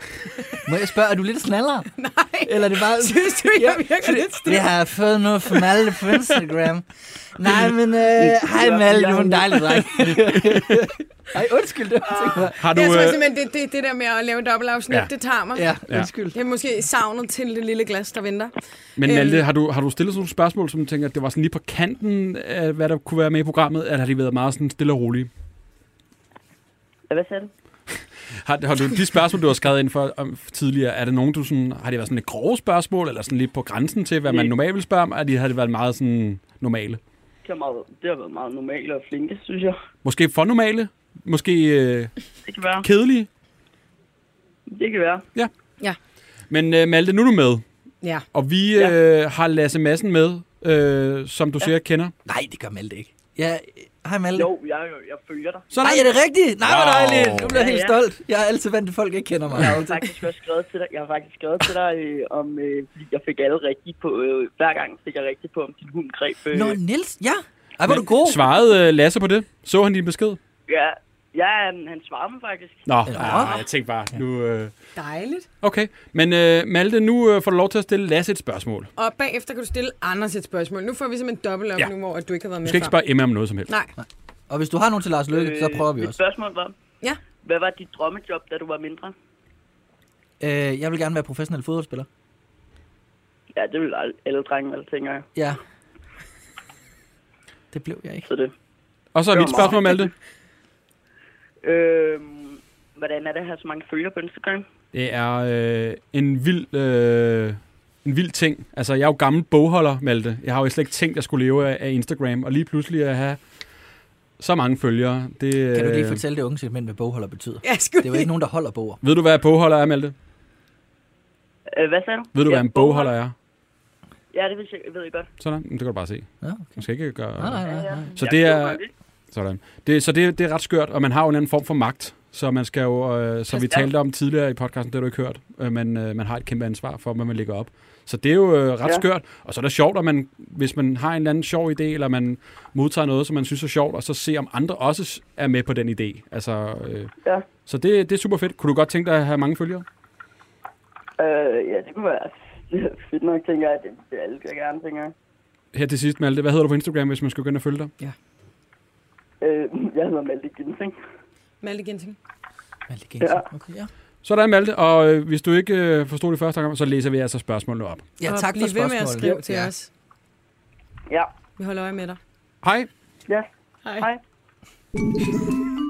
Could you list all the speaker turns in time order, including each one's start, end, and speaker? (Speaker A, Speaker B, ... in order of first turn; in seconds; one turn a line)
Speaker A: 0.3-0.6
Speaker B: 0.6-1.9
Speaker A: 2.0-4.7
Speaker B: 2.4-12.6
Speaker C: 8.2-9.6
Speaker A: 12.1-15.7
Speaker D: 12.6-13.2
Speaker B: 15.5-16.4
Speaker A: 16.3-19.4
Speaker D: 19.0-25.3
Speaker C: 27.1-27.5
Speaker D: 28.4-37.0
Speaker C: 34.2-34.5
Speaker C: 37.4-39.8
Speaker D: 40.0-42.2
Speaker C: 42.4-42.9
Speaker D: 42.8-43.3
Speaker C: 44.7-45.2
Speaker D: 46.5-47.6
Speaker D: 48.3-52.1
Speaker B: 52.2-54.5
Speaker C: 54.3-55.7
Speaker D: 55.7-57.6
Speaker B: 55.8-60.0
Speaker C: 57.4-58.0
Speaker C: 59.5-66.8
Speaker B: 66.5-68.5
Speaker D: 67.9-70.4
Speaker C: 70.7-72.8
Speaker D: 72.8-74.7
Speaker B: 73.1-73.6
Speaker A: 75.0-75.5
Speaker D: 75.6-78.9
Speaker A: 79.0-83.0
Speaker D: 82.6-83.7
Speaker B: 84.0-86.2
Speaker C: 85.3-86.7
Speaker C: 87.4-89.1
Speaker B: 90.4-92.1
Speaker C: 93.5-95.2
Speaker B: 95.3-95.6
Speaker B: 97.7-98.3
Speaker C: 98.2-98.5
Speaker D: 99.1-100.1
Speaker C: 99.3-100.1
Speaker C: 101.6-104.7
Speaker D: 104.9-113.4
Speaker D: 114.4-116.2
Speaker B: 115.7-119.0
Speaker A: 117.6-118.3
Speaker D: 119.0-120.1
Speaker C: 121.8-123.1
Speaker D: 122.3-123.3
Speaker C: 124.3-125.3
Speaker D: 125.4-127.6
Speaker B: 126.4-126.8
Speaker B: 127.4-128.2
Speaker C: 127.7-128.9
Speaker D: 128.2-128.8
Speaker D: 129.3-147.1
Speaker C: 133.5-133.9
Speaker D: 147.6-149.8
Speaker C: 151.2-155.1
Speaker D: 155.7-157.9
Speaker C: 159.4-160.9
Speaker A: 161.6-162.2
Speaker B: 162.9-163.9
Speaker C: 163.2-163.5
Speaker D: 164.2-168.1
Speaker B: 168.2-169.7
Speaker A: 168.2-169.9
Speaker A: 171.6-172.2
Speaker D: 172.6-172.9
Speaker A: 173.8-174.1